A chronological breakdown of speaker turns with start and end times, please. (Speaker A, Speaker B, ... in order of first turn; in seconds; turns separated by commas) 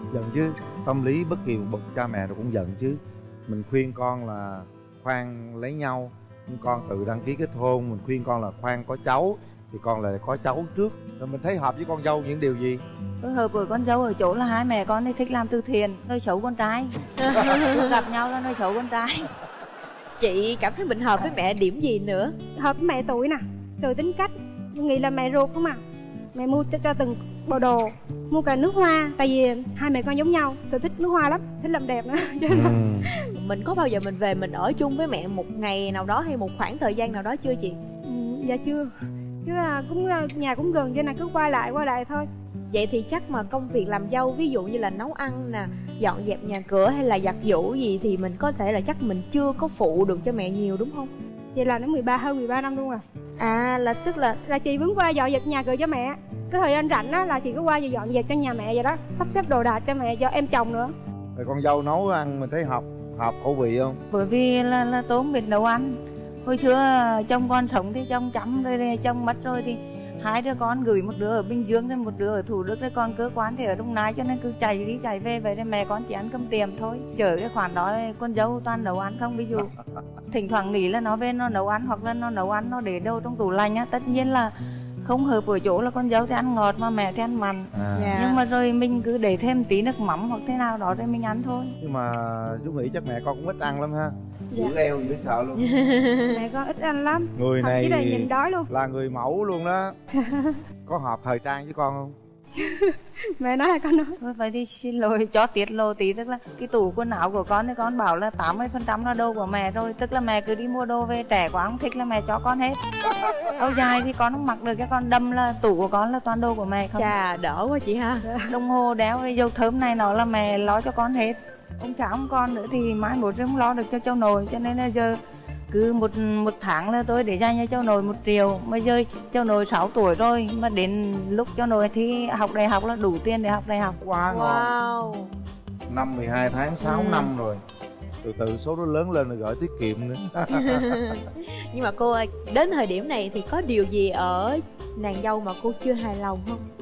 Speaker A: 0.1-12.8, Speaker B: 13.2-19.3, Speaker C: 17.2-17.9, Speaker C: 20.2-22.4, Speaker D: 22.6-25.8, Speaker D: 26.4-33.3, Speaker A: 32.5-33.1, Speaker C: 33.3-37.8, Speaker D: 38.0-38.9, Speaker D: 39.5-42.2, Speaker C: 42.7-51.1, Speaker D: 51.5-53.0, Speaker C: 53.4-54.4, Speaker D: 54.5-60.9, Speaker A: 61.4-64.0, Speaker B: 64.1-79.7, Speaker B: 80.3-84.5, Speaker B: 85.0-91.8, Speaker A: 87.7-88.1, Speaker C: 88.0-88.4, Speaker A: 91.8-95.7, Speaker C: 95.6-96.3, Speaker D: 96.3-98.7, Speaker A: 97.4-100.0, Speaker D: 100.2-100.6, Speaker A: 100.9-102.2, Speaker D: 102.6-104.2, Speaker B: 104.2-112.8, Speaker B: 113.5-117.1, Speaker C: 117.0-118.3, Speaker B: 118.5-125.2, Speaker B: 125.7-134.0, Speaker A: 134.0-134.8, Speaker C: 134.3-135.3, Speaker A: 135.9-137.6, Speaker C: 136.8-137.3, Speaker A: 138.2-141.0, Speaker C: 140.5-146.7